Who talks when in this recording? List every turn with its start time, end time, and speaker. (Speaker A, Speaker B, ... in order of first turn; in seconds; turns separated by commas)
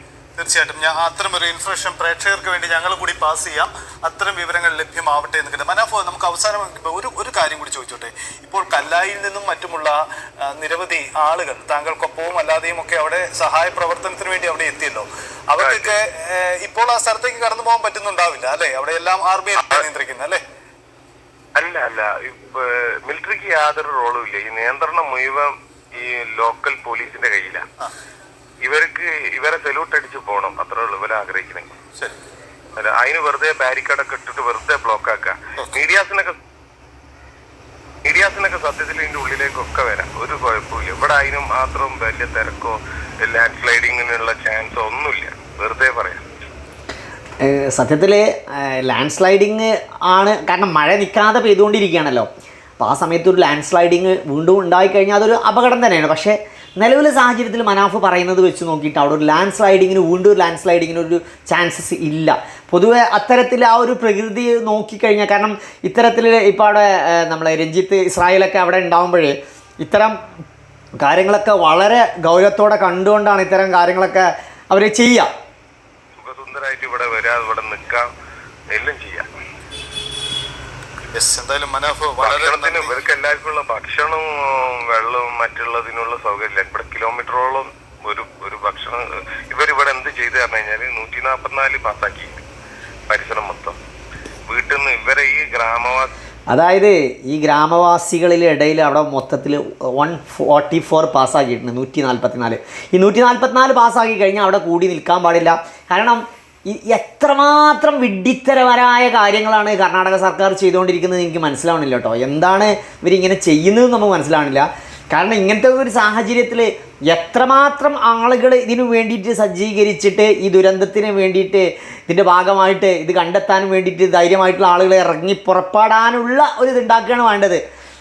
Speaker A: 0.3-20.4, Speaker B: 15.6-15.9, Speaker B: 21.6-27.6, Speaker B: 28.6-31.7, Speaker B: 32.8-36.4, Speaker B: 38.0-46.2, Speaker C: 47.4-52.3, Speaker C: 52.8-70.2, Speaker C: 71.0-75.3, Speaker B: 76.2-78.1, Speaker B: 78.7-79.3, Speaker A: 81.1-82.9, Speaker B: 82.2-92.4, Speaker B: 93.1-93.8, Speaker B: 94.5-96.1, Speaker C: 96.5-127.6